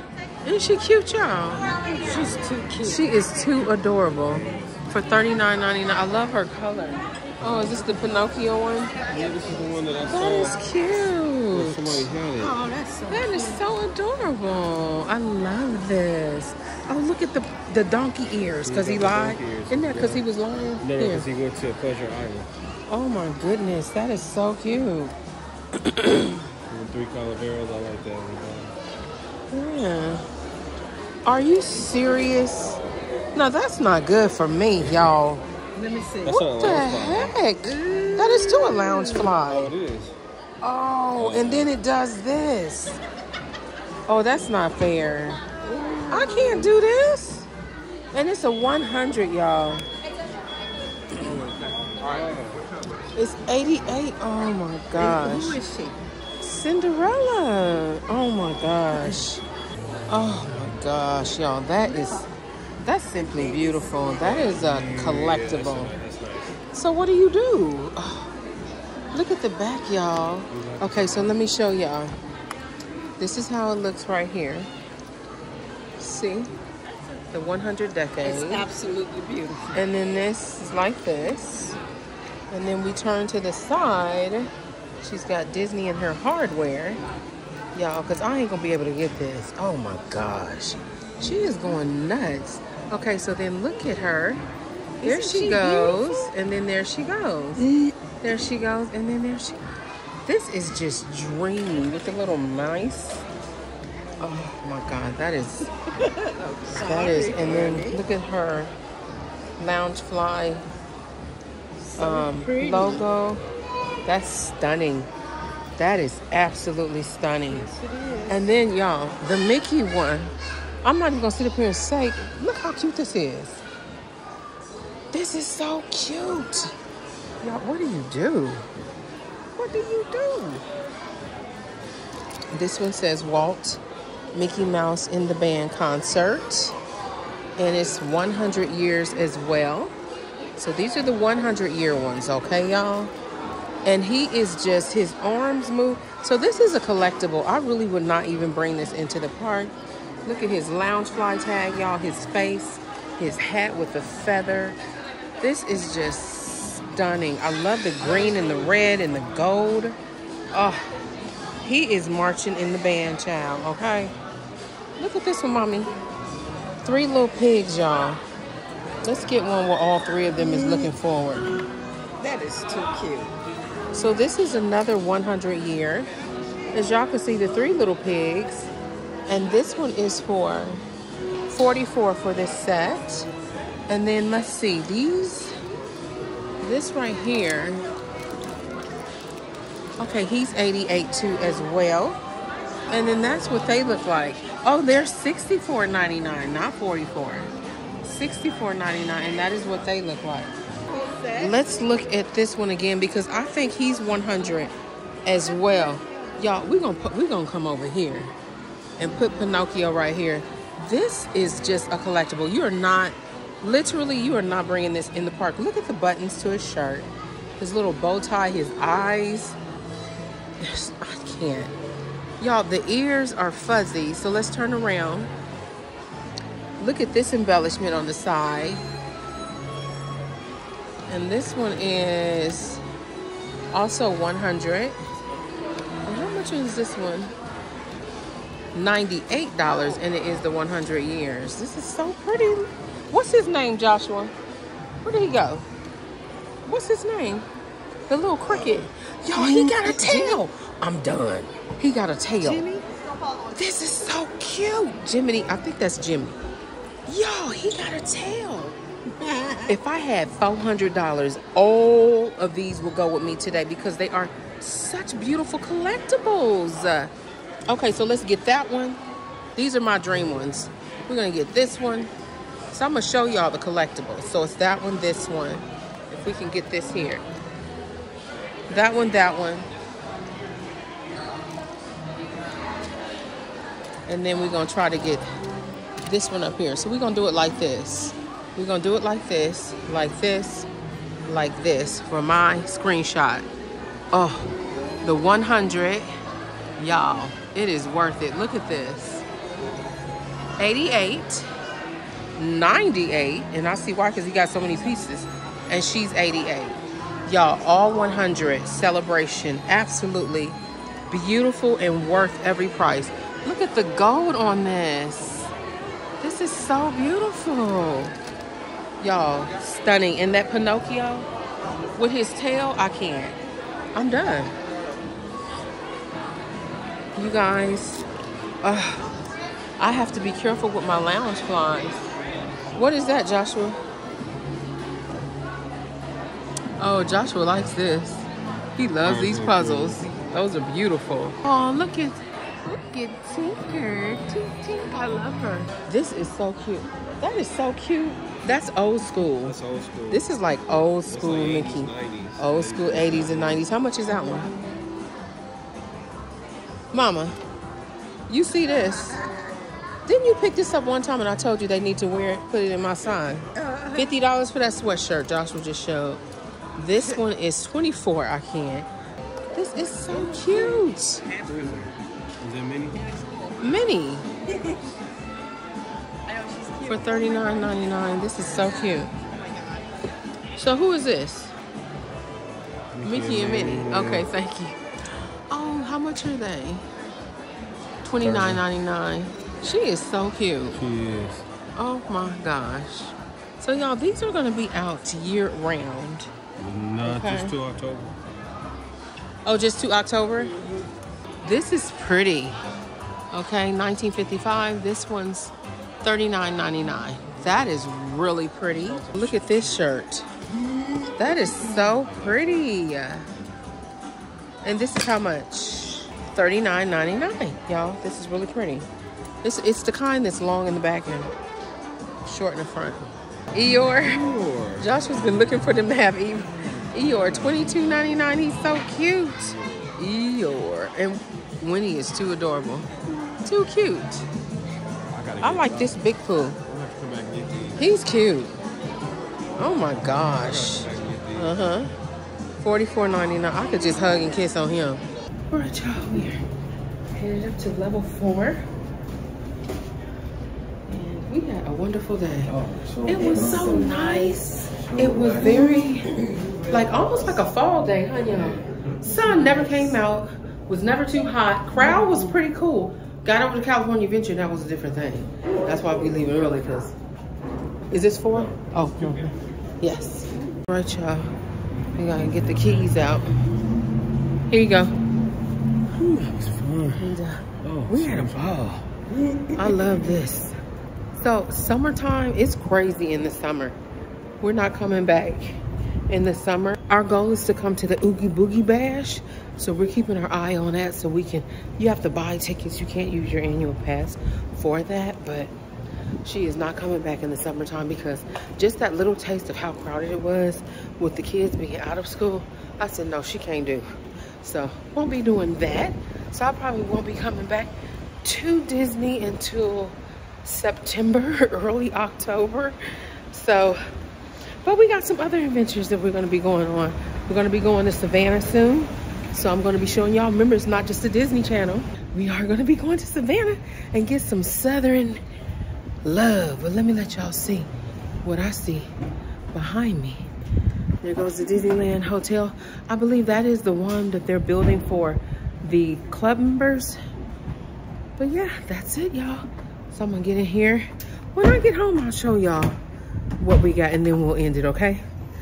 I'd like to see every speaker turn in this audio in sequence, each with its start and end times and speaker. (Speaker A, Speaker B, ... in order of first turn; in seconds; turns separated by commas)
Speaker A: 0.4-1.8, Speaker B: 1.7-3.1, Speaker C: 2.1-2.4, Speaker A: 2.8-8.9, Speaker C: 4.2-4.8, Speaker C: 9.1-10.6, Speaker A: 10.1-12.1, Speaker C: 11.5-12.6, Speaker B: 12.4-13.6, Speaker A: 13.1-21.2, Speaker C: 18.6-20.2, Speaker C: 20.8-22.5, Speaker A: 22.9-25.1, Speaker A: 25.8-26.3, Speaker C: 26.7-28.7, Speaker A: 29.5-30.2, Speaker A: 31.2-32.8, Speaker A: 33.3-35.4, Speaker B: 35.7-36.4, Speaker C: 36.2-37.4, Speaker A: 36.2-39.7, Speaker B: 37.6-39.3, Speaker C: 39.3-40.1, Speaker A: 40.6-43.0, Speaker C: 41.2-41.7, Speaker A: 44.1-45.4, Speaker B: 45.6-46.7, Speaker A: 46.1-47.5, Speaker A: 48.1-49.9, Speaker C: 51.2-52.7, Speaker A: 53.1-55.6, Speaker B: 54.9-56.0, Speaker A: 56.4-59.4, Speaker A: 60.1-62.3, Speaker A: 62.8-65.9, Speaker C: 64.2-66.6, Speaker A: 66.7-68.3, Speaker A: 69.1-72.2, Speaker C: 70.5-71.4, Speaker A: 73.2-74.7, Speaker A: 76.0-76.5, Speaker A: 77.3-78.7, Speaker B: 78.2-79.8, Speaker A: 79.7-81.8, Speaker A: 82.5-84.5, Speaker A: 85.0-87.0, Speaker A: 87.7-94.4, Speaker B: 95.0-96.3, Speaker A: 95.0-97.6, Speaker B: 97.6-98.0, Speaker A: 98.2-99.6, Speaker A: 100.2-103.2, Speaker A: 104.2-105.7, Speaker B: 106.0-108.1, Speaker A: 106.7-108.7, Speaker A: 109.6-110.7, Speaker B: 111.8-113.0, Speaker A: 112.0-113.4, Speaker A: 114.0-115.1, Speaker A: 115.8-117.7, Speaker B: 117.5-118.5, Speaker A: 118.3-120.3, Speaker A: 120.8-123.6, Speaker A: 125.1-126.7, Speaker A: 127.4-128.7, Speaker A: 129.6-130.6, Speaker A: 132.5-133.8, Speaker A: 134.3-136.8, Speaker A: 137.6-139.9, Speaker A: 140.6-143.1, Speaker A: 143.8-149.7, Speaker A: 150.2-154.8, Speaker A: 155.4-160.0, Speaker A: 160.5-160.9, Speaker A: 161.6-164.1, Speaker A: 165.0-165.9, Speaker A: 166.8-168.2, Speaker A: 169.0-171.5, Speaker B: 170.4-170.9, Speaker B: 172.2-173.3, Speaker A: 173.9-176.1, Speaker A: 176.7-178.7, Speaker A: 179.3-180.8, Speaker A: 181.5-183.3, Speaker A: 183.9-185.5, Speaker A: 186.6-187.8, Speaker A: 190.0-192.2, Speaker A: 192.9-197.5, Speaker A: 198.0-200.6, Speaker B: 200.9-201.6, Speaker A: 201.4-204.7, Speaker A: 205.2-208.3, Speaker A: 209.0-219.6, Speaker A: 220.6-221.7, Speaker A: 222.4-225.3, Speaker A: 226.8-228.8, Speaker A: 231.1-232.8, Speaker A: 233.7-235.0, Speaker A: 236.1-237.3, Speaker A: 238.7-244.3, Speaker A: 245.0-245.7, Speaker A: 246.6-247.4, Speaker A: 248.1-252.6, Speaker B: 248.4-250.4, Speaker B: 252.4-253.7, Speaker A: 253.5-256.4, Speaker A: 257.1-258.8, Speaker B: 259.2-259.8, Speaker A: 259.7-267.1, Speaker A: 267.7-269.0, Speaker A: 269.6-272.1, Speaker A: 272.7-277.2, Speaker A: 278.7-279.7, Speaker A: 284.1-285.3, Speaker A: 286.0-290.7, Speaker A: 291.2-293.5, Speaker A: 294.1-294.5, Speaker A: 295.0-296.1, Speaker A: 296.8-299.2, Speaker A: 300.6-301.5, Speaker A: 302.4-310.6, Speaker A: 311.1-315.5, Speaker A: 316.2-318.1, Speaker A: 319.0-321.3, Speaker A: 321.9-323.4, Speaker A: 323.9-324.5, Speaker A: 327.1-328.1, Speaker A: 328.6-329.1, Speaker A: 329.8-332.1, Speaker A: 332.7-333.8, Speaker A: 336.8-349.6, Speaker C: 339.0-340.2, Speaker C: 349.4-353.7, Speaker A: 350.1-354.5, Speaker A: 356.9-357.4, Speaker A: 358.3-359.2, Speaker B: 358.9-359.4, Speaker A: 360.1-366.2, Speaker B: 363.6-364.1, Speaker A: 366.8-368.9, Speaker A: 369.5-371.2, Speaker B: 370.1-371.6, Speaker C: 371.4-373.1, Speaker B: 373.1-373.8, Speaker A: 373.6-374.3, Speaker B: 374.5-374.8, Speaker B: 376.2-380.0, Speaker A: 376.9-379.1, Speaker A: 380.5-381.5, Speaker C: 382.9-384.3, Speaker A: 383.0-384.8, Speaker A: 385.5-386.8, Speaker A: 388.0-390.8, Speaker C: 388.2-388.6, Speaker C: 390.7-391.4, Speaker A: 391.8-396.3, Speaker C: 396.6-398.1, Speaker A: 397.0-397.6, Speaker A: 399.4-400.6, Speaker A: 401.4-402.6, Speaker A: 403.3-410.3, Speaker C: 408.7-409.9, Speaker A: 411.2-413.3, Speaker C: 411.9-412.7, Speaker A: 414.6-418.9, Speaker A: 419.4-421.3, Speaker A: 422.2-432.9, Speaker C: 424.0-424.9, Speaker C: 429.4-430.0, Speaker A: 433.4-434.3, Speaker C: 435.1-436.0, Speaker A: 435.4-436.6, Speaker C: 436.6-437.8, Speaker A: 437.8-438.6, Speaker A: 439.6-441.9, Speaker C: 440.4-441.6, Speaker A: 442.6-446.4, Speaker A: 447.1-448.6, Speaker A: 450.9-456.1, Speaker C: 452.6-453.1, Speaker A: 456.7-466.9, Speaker A: 467.9-469.2, Speaker C: 468.5-469.3, Speaker A: 469.8-471.3, Speaker A: 471.9-473.4, Speaker A: 474.5-474.9, Speaker C: 475.9-478.6, Speaker A: 476.9-478.9, Speaker A: 479.5-480.6, Speaker A: 481.1-483.8, Speaker A: 484.4-495.5, Speaker A: 496.2-503.9, Speaker A: 504.4-507.7, Speaker A: 508.2-512.8, Speaker A: 513.3-513.8, Speaker A: 514.6-525.2, Speaker A: 526.0-527.7, Speaker A: 528.2-528.9, Speaker A: 529.5-530.3, Speaker A: 531.0-537.0, Speaker A: 538.2-542.8, Speaker A: 543.4-545.0